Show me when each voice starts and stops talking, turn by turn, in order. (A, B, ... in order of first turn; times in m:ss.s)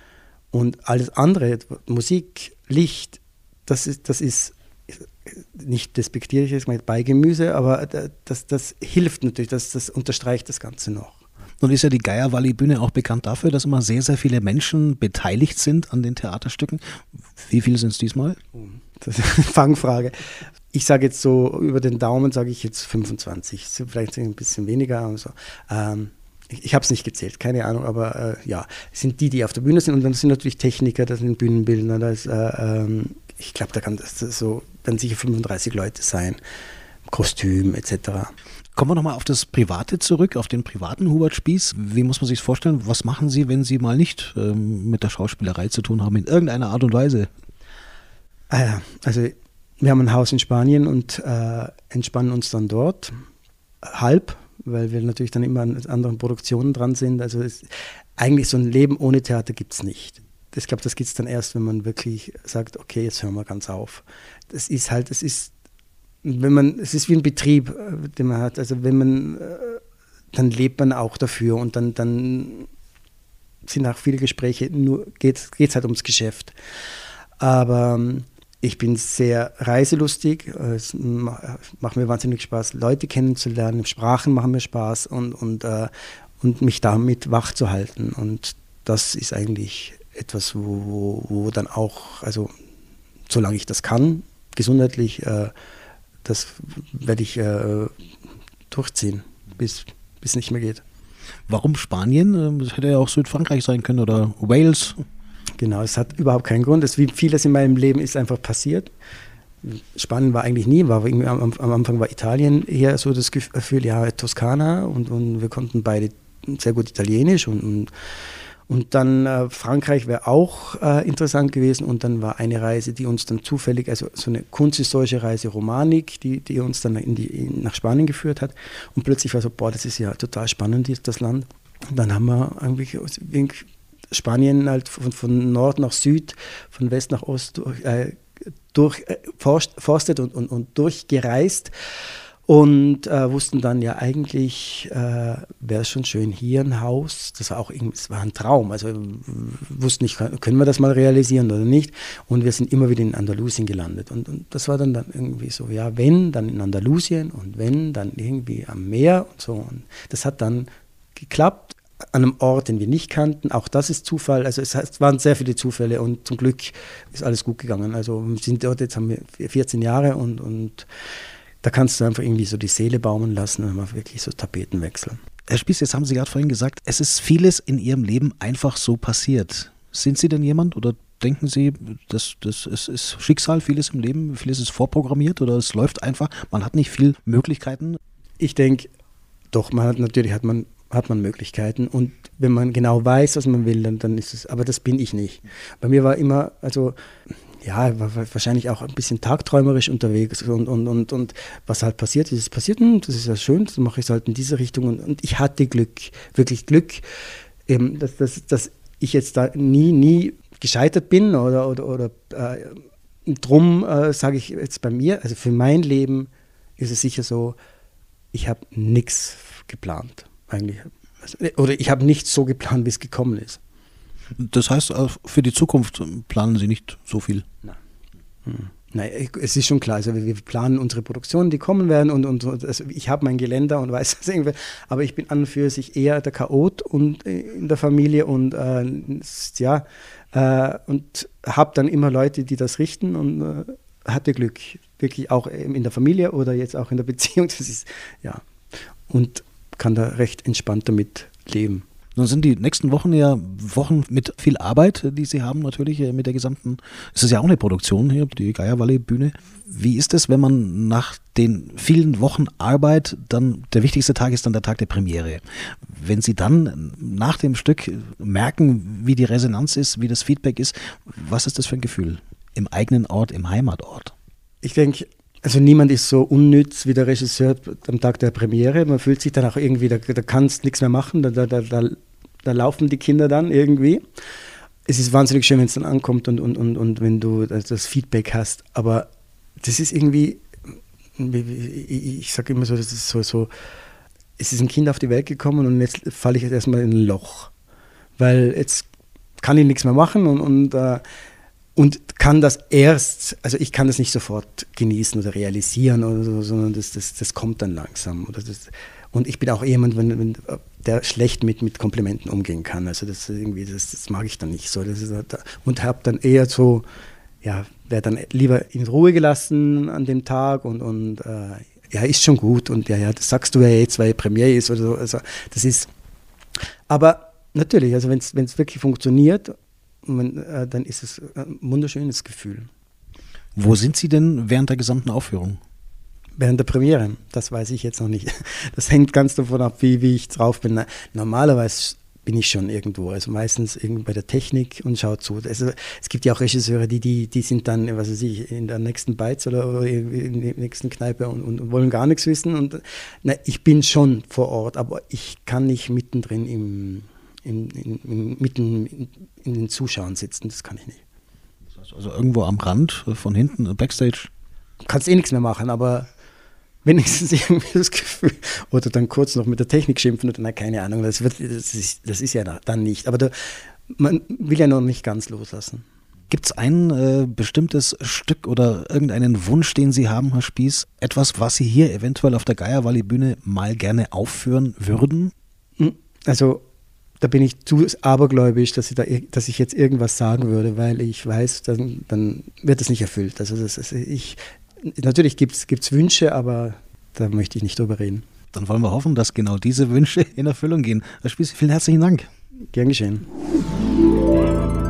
0:00.5-0:11.2 A
0:11.6-0:18.4 B
0:18.6-0:36.4 A
0:37.1-0:38.3 A
0:38.7-0:47.3 B
0:48.5-0:53.2 A
0:53.8-1:05.5 A
1:06.2-1:09.8 A
1:10.3-1:12.7 A
1:13.6-1:16.5 A
1:17.4-1:32.5 A
1:33.3-1:35.5 A
1:36.2-1:37.9 A
1:38.7-1:40.8 A
1:41.5-1:45.0 B
1:45.6-1:48.9 A
1:49.6-1:57.9 A
1:58.7-2:18.2 A
2:18.7-2:21.7 A
2:22.5-2:50.9 A
2:51.6-2:55.2 A
2:55.5-3:08.0 B
3:08.4-3:08.9 A
3:09.5-3:16.9 A
3:17.6-3:27.0 A
3:27.7-3:37.6 A
3:38.3-3:43.6 A
3:44.4-3:47.4 B
3:48.4-4:08.4 A
4:09.1-4:11.8 A
4:12.1-4:34.1 B
4:34.6-4:44.0 A
4:44.9-4:49.1 A
4:49.6-4:50.4 A
4:51.2-4:53.5 A
4:54.4-4:57.5 A
4:58.2-4:58.9 A
4:59.4-5:01.0 A
5:01.8-5:16.8 A
5:17.4-5:25.9 A
5:26.9-5:32.7 A
5:33.5-5:35.6 B
5:36.4-6:01.0 A
6:01.7-6:04.3 B
6:04.8-6:06.1 A
6:06.8-6:15.8 A
6:16.3-6:25.3 B
6:25.8-6:26.6 A
6:27.2-6:38.2 A
6:38.5-6:42.3 B
6:42.7-6:43.2 A